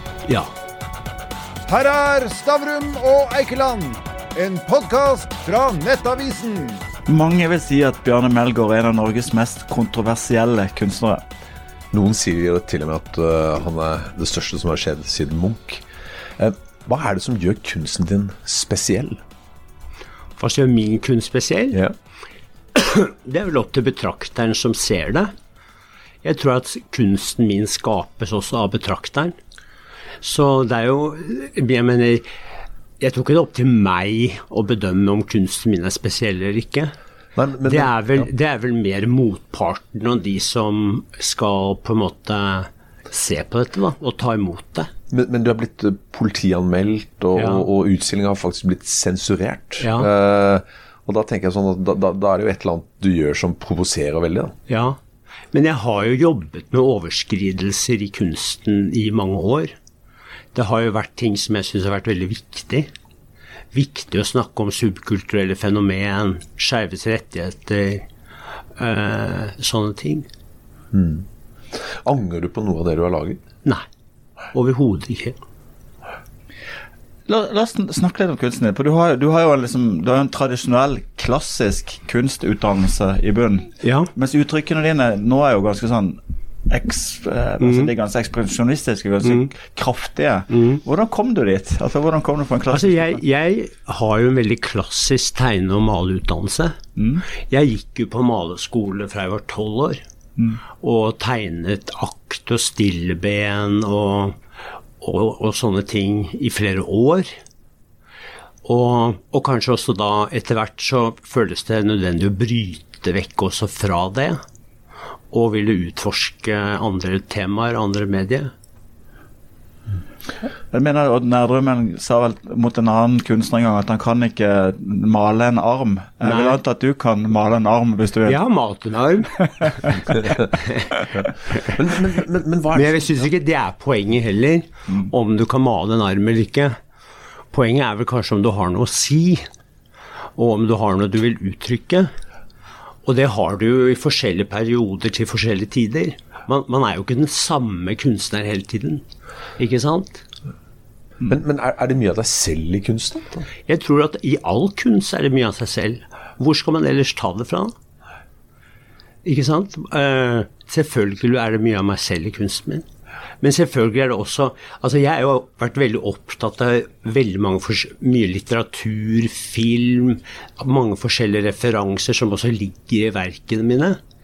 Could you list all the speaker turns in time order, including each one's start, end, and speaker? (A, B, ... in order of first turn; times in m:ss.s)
0:01.7-0:06.8 A
0:07.1-0:11.2 B
0:11.9-0:15.8 C
0:16.4-0:19.2 C
0:20.4-0:21.8 D
0:22.7-0:25.3 D
0:26.2-0:29.4 D
0:30.2-0:32.2 D
0:33.0-0:36.9 D
0:37.4-0:38.3 C
0:37.7-0:44.9 D
0:45.1-0:54.6 C
0:47.4-0:47.7 D
0:49.8-0:50.1 D
0:54.7-0:55.0 D
0:55.5-0:59.7 D
1:00.5-1:02.9 D
1:03.7-1:08.1 D
1:08.8-1:10.3 D
1:10.9-1:13.4 C
1:14.5-1:15.4 D
1:17.3-1:33.2 B
1:23.8-1:24.1 D
1:27.6-1:27.9 D
1:29.2-1:29.5 D
1:30.5-1:30.8 D
1:32.7-1:36.8 D
1:37.0-1:37.2 B
1:37.4-1:40.0 D
1:40.8-1:44.4 D
1:45.0-1:47.3 D
1:48.6-1:54.4 D
1:55.3-1:58.5 D
2:00.7-2:08.4 B
2:06.2-2:06.6 D
2:08.2-2:11.8 D
2:11.2-2:13.2 C
2:12.7-2:16.8 D
2:17.5-2:19.4 D
2:20.4-2:22.1 D
2:23.1-2:29.0 D
2:29.6-2:30.2 D
2:31.2-2:33.5 C
2:33.7-2:37.7 D
2:39.2-2:42.9 D
2:43.4-2:54.0 D